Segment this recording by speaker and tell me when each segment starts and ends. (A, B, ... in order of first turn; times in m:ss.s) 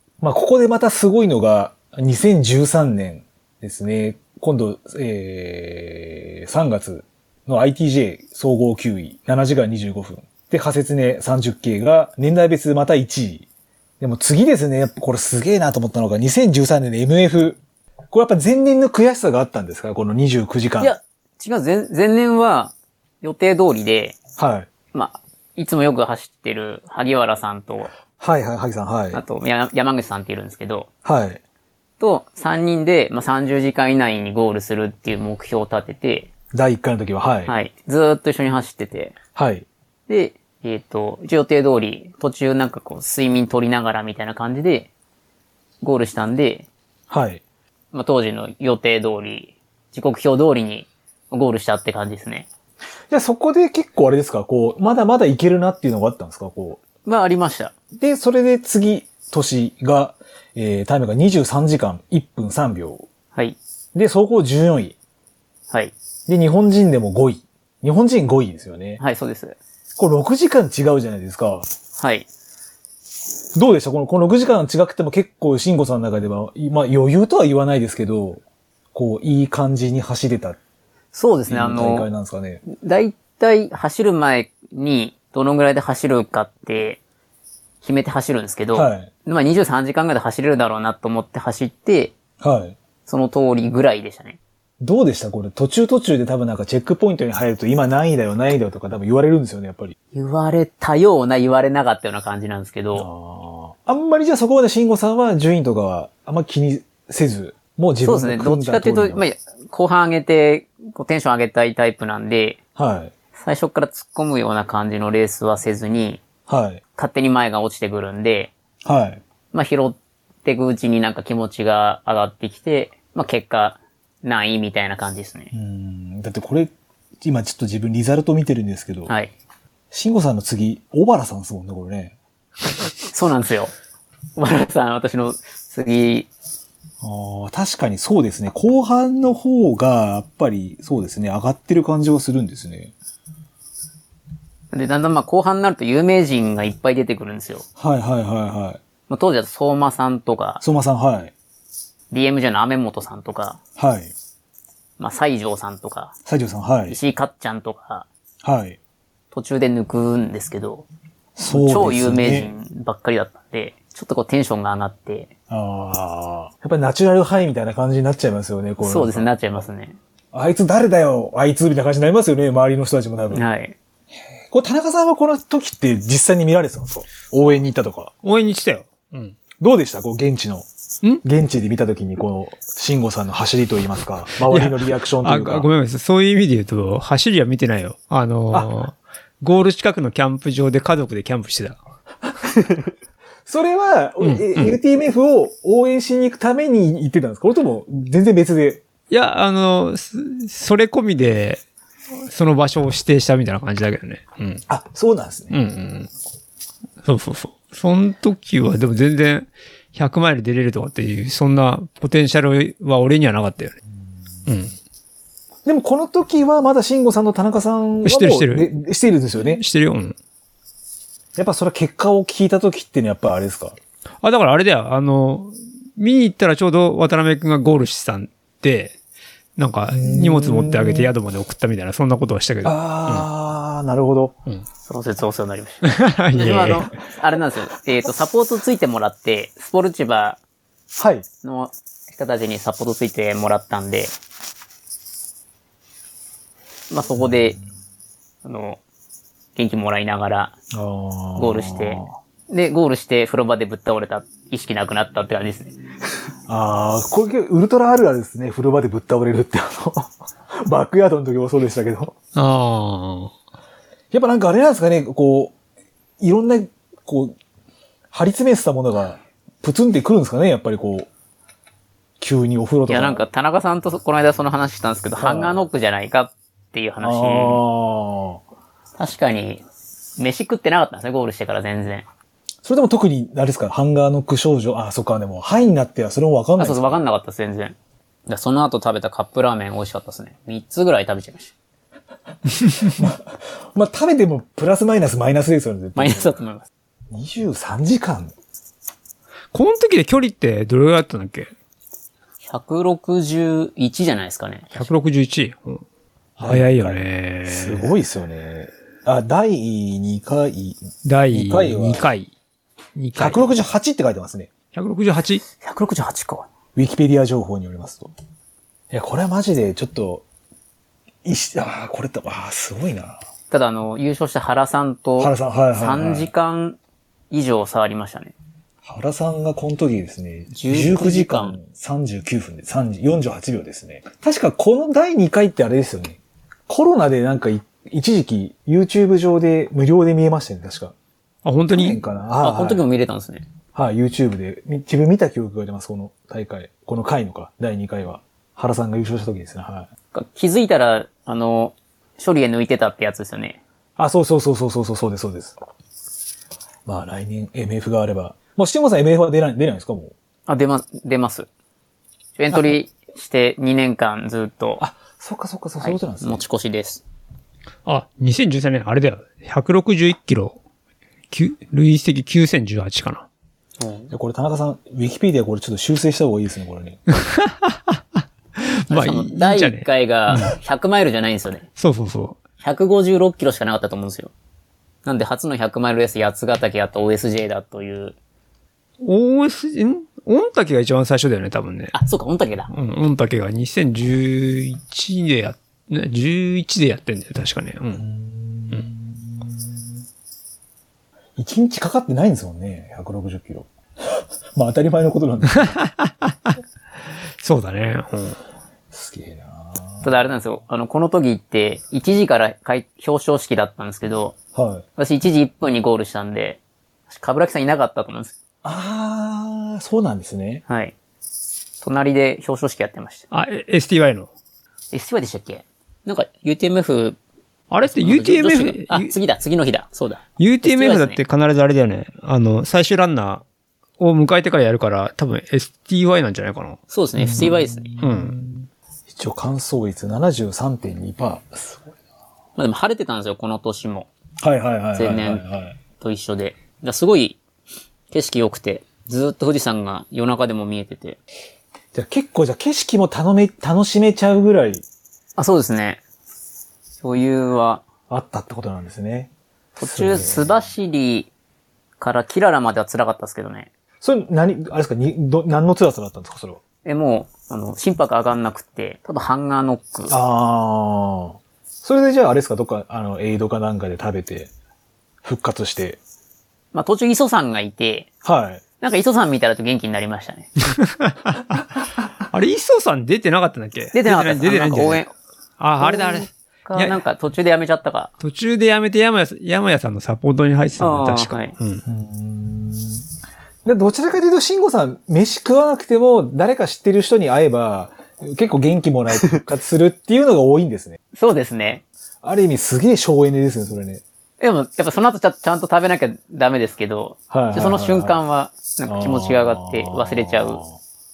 0:00.2-0:13.4 A
0:14.0-0:17.6 A
0:18.1-0:20.9 A
0:20.8-0:24.2 B
0:24.4-0:24.7 A
0:24.9-0:27.9 B
0:28.2-0:29.2 A
0:29.1-0:30.9 B
0:31.0-0:31.4 A
0:32.0-0:36.3 B
0:36.5-0:37.5 A
0:37.4-0:39.2 B
0:39.4-0:39.6 A
0:40.1-0:44.9 B
0:45.8-0:46.7 B
0:47.1-0:47.4 A
0:47.9-0:52.5 B
0:53.1-0:56.8 A
0:57.0-0:57.7 B
0:58.0-1:03.1 A
1:03.9-1:05.0 A
1:06.3-1:09.0 A
1:09.0-1:09.6 B
1:10.0-1:11.6 A
1:12.0-1:12.3 B
1:13.5-1:18.4 A
1:18.9-1:20.6 A
1:21.1-1:22.1 B
1:21.5-1:22.6 A
1:22.6-1:27.0 B
1:27.8-1:32.1 B
1:28.7-1:29.1 A
1:32.4-1:32.8 A
1:33.0-1:34.4 B
1:34.8-1:39.9 A
1:40.1-1:43.1 B
1:42.9-1:49.2 A
1:48.0-1:52.6 B
1:52.8-1:53.1 A
1:53.4-1:56.2 B
1:56.5-1:56.8 A
1:57.0-1:58.5 B
1:58.8-1:59.2 A
1:59.5-2:05.5 B
2:05.5-2:09.1 A
2:09.1-2:09.3 B
2:09.9-2:12.1 A
2:13.1-2:13.7 B
2:14.4-2:16.3 B
2:17.0-2:22.9 A
2:24.7-2:27.7 B
2:27.8-2:28.8 A
2:29.1-2:30.6 B
2:30.6-2:31.3 A
2:32.1-2:33.6 B
2:33.8-2:34.1 A
2:35.0-2:36.1 B
2:36.2-2:37.0 A
2:36.9-2:38.1 B
2:38.4-2:38.8 A
2:39.3-2:40.8 B
2:41.4-2:42.5 A
2:41.5-2:45.3 B
2:45.5-2:49.6 A
2:48.8-2:50.0 B
2:50.3-2:53.4 A
2:53.3-2:53.8 B
2:54.5-2:58.1 A
2:58.2-2:59.4 C
2:59.6-3:00.7 A
3:01.2-3:05.7 A
3:04.4-3:11.8 C
3:13.4-3:18.8 A
3:14.2-3:14.8 C
3:19.1-3:21.6 C
3:22.2-3:24.6 C
3:24.7-3:25.6 A
3:25.5-3:26.1 C
3:27.0-3:33.8 C
3:34.5-3:34.7 C
3:35.6-3:39.6 A
3:38.0-3:38.7 C
3:39.4-3:40.1 C
3:41.4-3:43.8 A
3:44.2-3:48.9 C
3:49.6-3:53.3 C
3:49.9-3:51.1 A
3:52.6-3:54.4 A
3:54.8-4:00.4 B
3:55.8-3:56.9 C
4:00.9-4:01.2 A
4:01.4-4:04.1 B
4:06.9-4:07.6 B
4:08.4-4:08.8 B
4:09.6-4:10.5 B
4:10.7-4:12.1 A
4:11.4-4:15.8 B
4:16.5-4:22.1 A
4:22.3-4:23.3 C
4:24.1-4:25.5 A
4:26.2-4:27.4 A
4:28.1-4:31.1 A
4:32.2-4:33.2 A
4:32.9-4:37.6 B
4:35.2-4:35.6 A
4:37.0-4:38.4 A
4:39.0-4:39.6 B
4:40.2-4:42.0 B
4:42.6-4:47.0 A
4:46.6-4:47.7 B
4:48.3-4:51.5 B
4:52.7-4:56.4 A
4:56.0-4:56.7 B
4:57.1-4:58.3 A
4:59.5-5:01.5 C
5:02.4-5:04.9 B
5:04.7-5:05.8 C
5:06.4-5:12.1 A
5:06.4-5:07.9 C
5:11.0-5:12.3 C
5:13.0-5:13.5 C
5:13.2-5:14.5 A
5:14.7-5:15.4 C
5:15.6-5:16.5 B
5:16.7-5:18.1 A
5:18.9-5:20.2 A
5:21.2-5:23.2 A
5:23.5-5:26.8 B
5:25.2-5:26.3 A
5:27.3-5:28.3 B
5:28.8-5:40.9 A
5:30.5-5:31.6 B
5:41.4-5:42.0 C
5:41.7-5:42.8 A
5:42.4-5:43.4 B
5:43.7-5:49.9 A
5:50.1-5:53.6 B
5:54.0-5:55.6 A
5:56.8-6:00.1 A
6:00.5-6:01.5 B
6:02.4-6:04.8 B
6:04.8-6:06.4 A
6:05.8-6:07.0 B
6:07.8-6:10.6 C
6:11.3-6:13.3 C
6:13.8-6:14.1 B
6:14.1-6:17.0 A
6:17.1-6:18.0 C
6:18.6-6:20.5 C
6:18.9-6:21.7 B
6:21.8-6:22.4 C
6:22.6-6:24.3 B
6:25.0-6:28.2 B
6:29.0-6:32.0 C
6:31.9-6:32.7 B
6:32.7-6:38.0 C
6:37.9-6:39.8 A
6:41.4-6:45.8 A
6:45.6-6:46.6 C
6:47.4-6:48.4 C
6:48.9-6:50.0 A
6:50.0-6:54.3 B
6:54.5-6:54.8 A
6:55.0-6:58.3 B
6:58.6-7:00.6 A
7:00.7-7:00.9 B
7:01.8-7:03.2 B
7:03.3-7:04.3 C
7:04.9-7:07.2 B
7:07.7-7:09.1 C
7:07.8-7:11.2 B
7:10.4-7:13.4 C
7:14.0-7:16.8 C
7:16.9-7:17.9 B
7:17.2-7:21.9 A
7:18.0-7:18.4 C
7:22.6-7:24.1 B
7:24.4-7:25.8 A
7:25.0-7:25.4 B
7:26.0-7:27.4 B
7:28.1-7:31.2 B
7:31.9-7:34.8 A
7:35.4-7:36.0 B
7:37.0-7:37.8 B
7:38.1-7:40.5 A
7:39.8-7:41.3 B
7:42.0-7:43.7 B
7:44.0-7:46.6 A
7:46.8-7:50.2 B
7:50.1-7:54.5 A
7:55.2-7:56.0 A
7:56.7-7:58.1 B
7:58.2-7:58.6 A
7:58.8-8:00.5 B
8:00.7-8:01.6 C
8:02.3-8:05.0 C
8:03.9-8:05.1 B
8:05.6-8:07.0 C
8:05.8-8:08.1 B
8:08.2-8:11.8 C
8:10.8-8:11.5 B
8:11.8-8:13.0 A
8:13.6-8:21.0 A
8:21.1-8:21.8 B
8:22.2-8:24.0 A
8:24.4-8:30.6 B
8:27.3-8:28.2 A
8:28.9-8:30.8 A